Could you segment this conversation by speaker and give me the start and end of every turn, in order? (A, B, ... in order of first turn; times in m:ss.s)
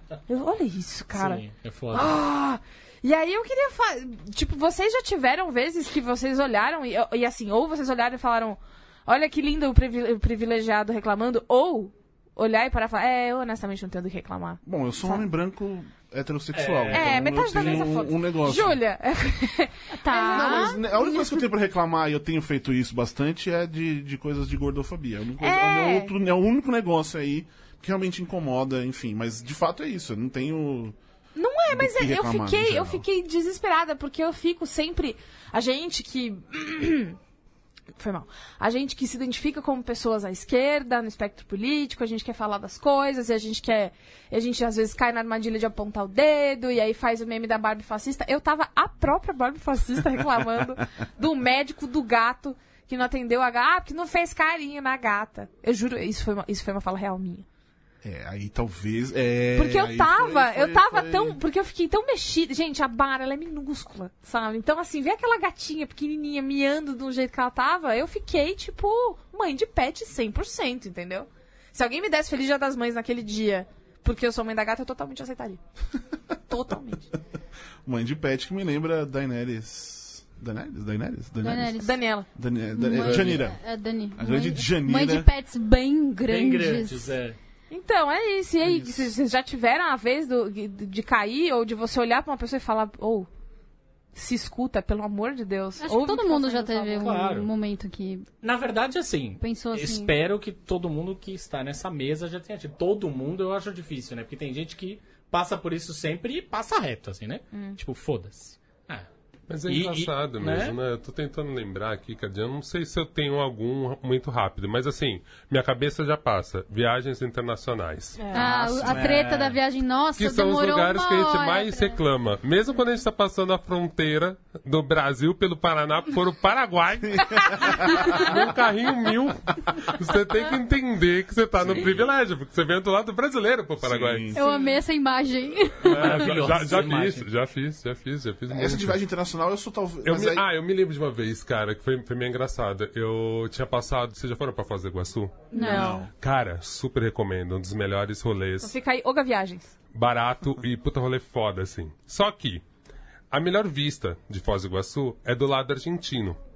0:00.3-0:15.2 A
0:01.1-0:02.1 B
0:14.6-0:18.8 C
0:16.5-0:17.9 B
0:16.9-0:21.3 A
0:20.0-0:20.8 D
0:20.3-0:31.0 C
0:25.4-0:26.1 A
0:31.4-0:37.2 A
0:31.7-0:33.0 C
0:38.0-0:57.4 A
0:58.0-1:01.4 C
0:59.5-1:15.6 A
1:16.5-1:17.1 A
1:17.8-1:21.8 C
1:21.4-1:22.0 D
1:21.8-1:22.3 A
1:22.3-1:23.6 C
1:22.7-1:27.1 D
1:24.2-1:25.3 C
1:26.2-1:27.4 B
1:27.7-1:33.3 A
1:28.6-1:29.1 C
1:34.1-1:37.2 A
1:35.8-1:38.3 D
1:37.0-1:37.5 B
1:38.4-1:49.1 B
1:39.4-1:40.1 D
1:47.5-1:47.8 A
1:49.5-1:58.2 E
1:49.7-1:50.8 B
1:58.2-1:58.5 A
1:58.3-2:02.0 D
1:58.4-1:59.6 C
2:00.2-2:14.3 E
2:07.2-2:08.4 C
2:11.6-2:12.0 C
2:13.8-2:14.5 C
2:14.3-2:16.4 D
2:15.8-2:19.0 E
2:15.8-2:17.2 B
2:18.5-2:20.4 C
2:20.0-2:25.5 E
2:25.5-2:26.0 A
2:25.5-2:26.0 D
2:25.6-2:26.1 C
2:26.1-2:28.7 E
2:28.6-2:29.7 A
2:29.9-2:32.6 E
2:33.3-2:36.4 E